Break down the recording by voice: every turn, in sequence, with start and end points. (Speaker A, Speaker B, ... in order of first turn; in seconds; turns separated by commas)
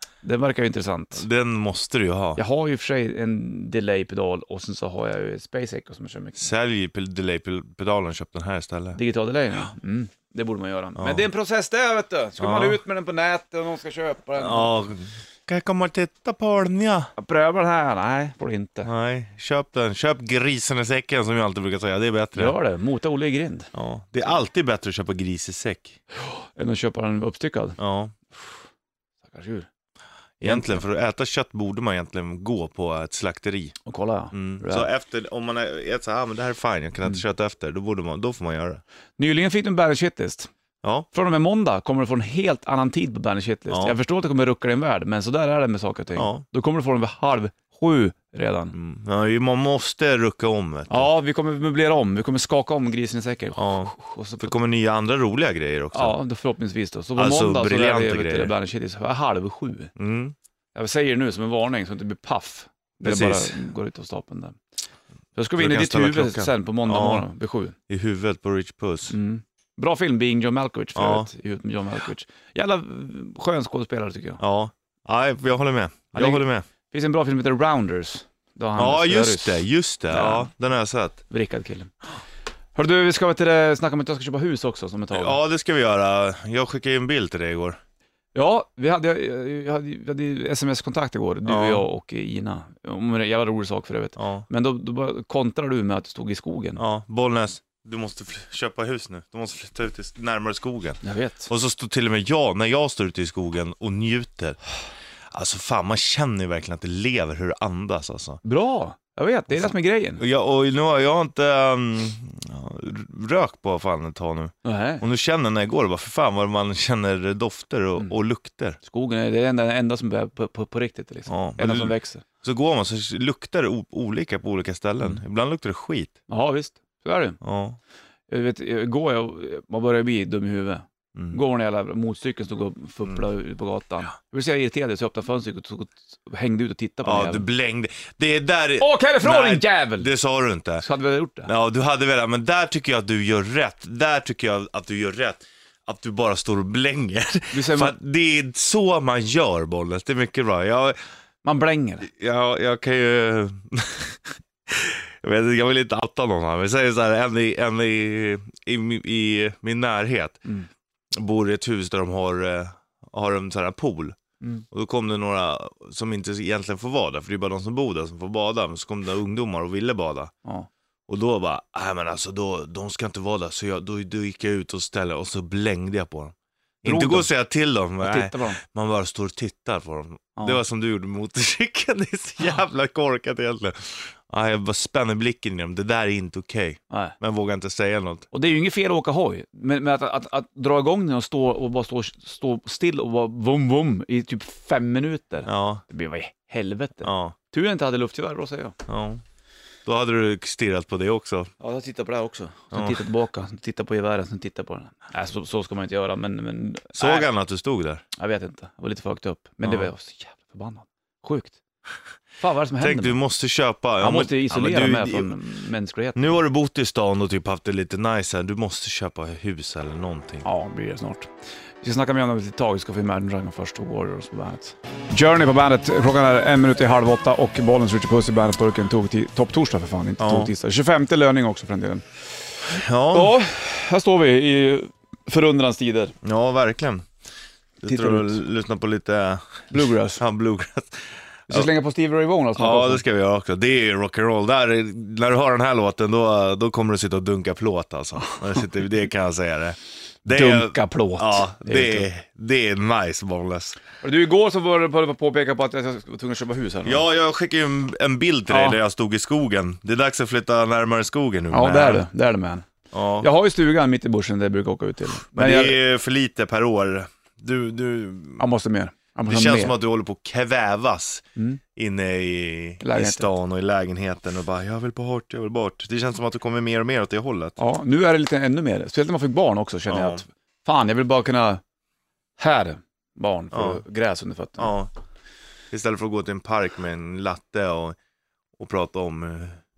Speaker A: 0.2-1.2, Speaker B: 1.2-2.4, Speaker A: 2.4-6.5, Speaker B: 6.4-9.0, Speaker A: 8.9-14.7, Speaker B: 11.0-11.3, Speaker B: 12.4-12.8, Speaker B: 14.4-17.1, Speaker A: 17.2-18.9, Speaker B: 18.9-22.6, Speaker A: 22.4-23.7, Speaker B: 23.7-26.0, Speaker A: 26.2-27.8, Speaker B: 27.8-28.1, Speaker A: 29.3-29.7, Speaker B: 30.4-33.8, Speaker A: 30.4-30.8, Speaker A: 33.9-34.9, Speaker B: 34.3-38.8, Speaker A: 39.2-40.5, Speaker A: 41.1-48.8, Speaker B: 43.7-44.0, Speaker B: 46.1-46.4, Speaker B: 48.7-51.1, Speaker A: 50.9-54.5, Speaker B: 53.6-56.2, Speaker A: 55.9-59.9, Speaker B: 57.2-58.5, Speaker B: 60.0-60.4, Speaker A: 60.8-64.6, Speaker B: 63.0-63.6, Speaker A: 65.4-67.8, Speaker B: 65.6-67.3, Speaker B: 67.9-69.2, Speaker A: 69.1-74.4, Speaker B: 71.0-71.3, Speaker B: 74.4-76.7, Speaker A: 76.1-80.5, Speaker B: 78.8-81.2, Speaker A: 81.3-81.9, Speaker A: 82.8-85.4, Speaker B: 85.1-87.8, Speaker A: 88.3-96.8, Speaker B: 91.5-91.8, Speaker B: 94.2-94.5, Speaker B: 96.8-104.6, Speaker A: 101.0-101.5, Speaker B: 105.3-108.4, Speaker A: 108.4-110.2, Speaker B: 109.5-118.8, Speaker A: 114.7-115.0, Speaker A: 118.8-122.2, Speaker B: 121.3-126.1, Speaker A: 126.3-127.4, Speaker B: 127.4-127.8, Speaker A: 128.3-137.5, Speaker B: 131.2-131.4, Speaker B: 137.0-140.8, Speaker A: 138.8-140.1, Speaker A: 140.8-141.5, Speaker B: 141.4-151.0, Speaker A: 147.5-147.9, Speaker A: 151.4-152.1, Speaker B: 152.1-160.4, Speaker B: 161.2-164.2, Speaker B: 164.7-170.3, Speaker B: 171.1-188.3, Speaker A: 176.8-177.3, Speaker A: 178.0-178.6, Speaker A: 188.3-198.8, Speaker B: 195.4-195.8, Speaker B: 197.0-197.3, Speaker B: 198.9-199.2, Speaker B: 199.9-201.5, Speaker A: 201.6-207.3, Speaker B: 202.7-203.1, Speaker B: 206.9-208.0, Speaker A: 208.2-211.6, Speaker B: 209.6-209.9, Speaker A: 212.4-213.2, Speaker B: 212.8-215.4, Speaker A: 214.0-216.4, Speaker B: 216.2-220.5, Speaker A: 220.4-221.3, Speaker A: 221.8-232.0, Speaker B: 230.2-230.5, Speaker B: 232.7-233.4, Speaker A: 233.1-236.2, Speaker B: 236.2-237.1, Speaker B: 237.8-241.7, Speaker A: 237.9-238.4, Speaker A: 239.7-240.2, Speaker A: 241.5-243.0, Speaker B: 242.6-253.8, Speaker A: 250.3-252.1, Speaker A: 254.0-257.0, Speaker B: 256.9-262.0, Speaker A: 258.5-258.8, Speaker A: 261.5-262.7, Speaker B: 262.9-263.3, Speaker A: 263.2-265.8, Speaker B: 265.4-268.4, Speaker A: 268.4-269.8, Speaker B: 269.3-277.6, Speaker A: 272.8-273.3, Speaker A: 277.6-281.6, Speaker B: 279.9-280.2, Speaker A: 282.4-284.7, Speaker B: 283.5-283.8, Speaker B: 284.6-284.9, Speaker B: 285.7-288.0, Speaker B: 288.6-289.6